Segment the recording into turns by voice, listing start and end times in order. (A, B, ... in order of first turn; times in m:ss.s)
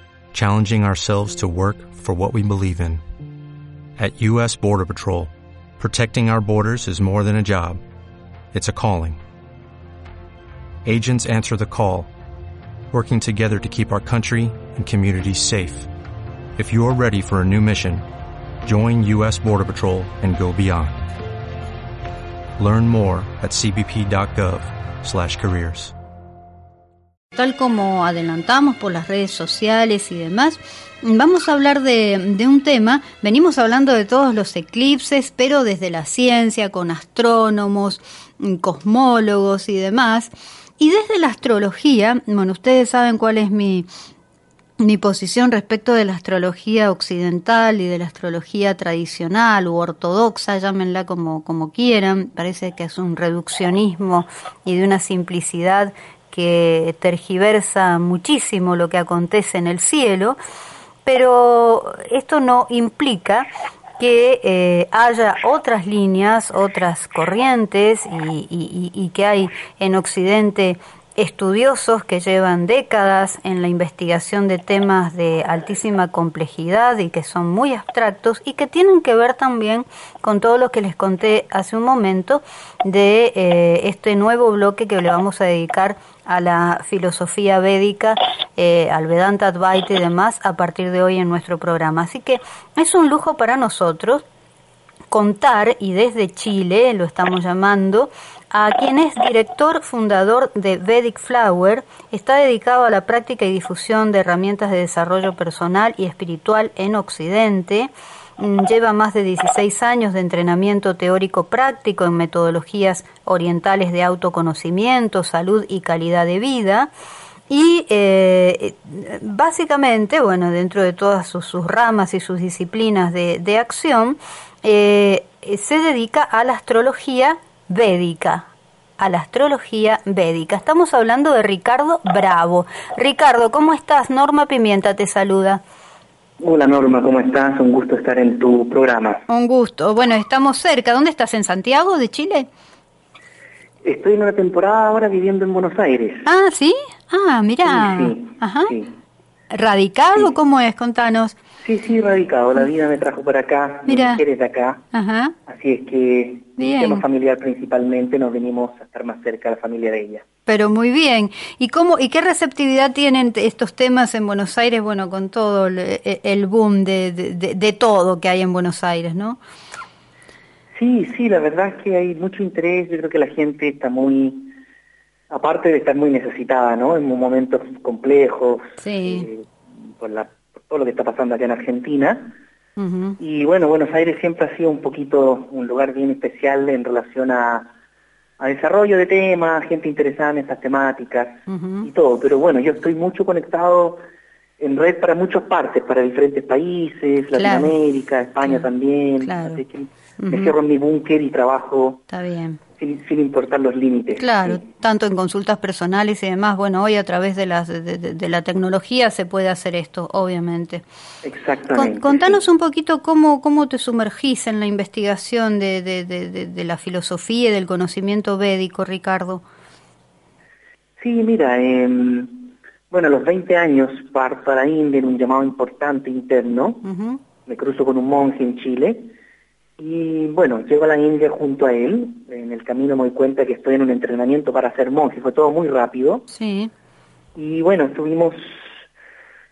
0:00.3-0:03.0 A
0:04.0-0:07.8 A
0:08.5-0:09.2 A
0:10.8-0:12.1 A
0:12.9-0:15.9 A
0:16.6-0:18.0 A
0:18.6-0:21.1 A
0:22.6-0:25.9 A
0:27.3-0:43.9 B
0:44.8-1:00.4 B
1:01.0-1:03.5 B
1:04.0-1:34.2 B
1:35.1-1:56.9 B
1:57.5-2:08.5 B
2:09.0-2:15.6 B
2:16.4-2:19.2 C
2:19.3-2:22.5 B
2:23.8-2:26.3 C
2:26.3-2:28.8 B
2:27.6-2:29.0 C
2:29.5-2:31.4 B
2:31.6-2:34.8 C
2:33.9-2:34.2 B
2:34.9-2:35.4 B
2:35.5-2:40.2 C
2:36.6-2:37.0 B
2:40.5-2:49.4 B
2:50.8-2:54.6 C
2:55.3-3:02.4 C
2:58.8-2:59.3 B
3:02.8-3:03.2 B
3:03.2-3:07.7 C
3:08.4-3:14.0 C
3:11.5-3:11.9 B
3:14.6-3:22.0 C
3:17.4-3:17.7 B
3:19.2-3:19.6 B
3:20.2-3:20.6 B
3:22.1-3:22.6 B
3:22.8-3:24.6 C
3:24.2-3:30.8 B
3:31.2-3:32.4 C
3:31.7-3:39.4 B
3:41.0-3:46.8 C
3:46.8-3:47.2 B
3:47.4-3:49.1 C
3:49.8-3:56.3 C
3:56.3-3:56.7 B
3:57.4-3:58.8 C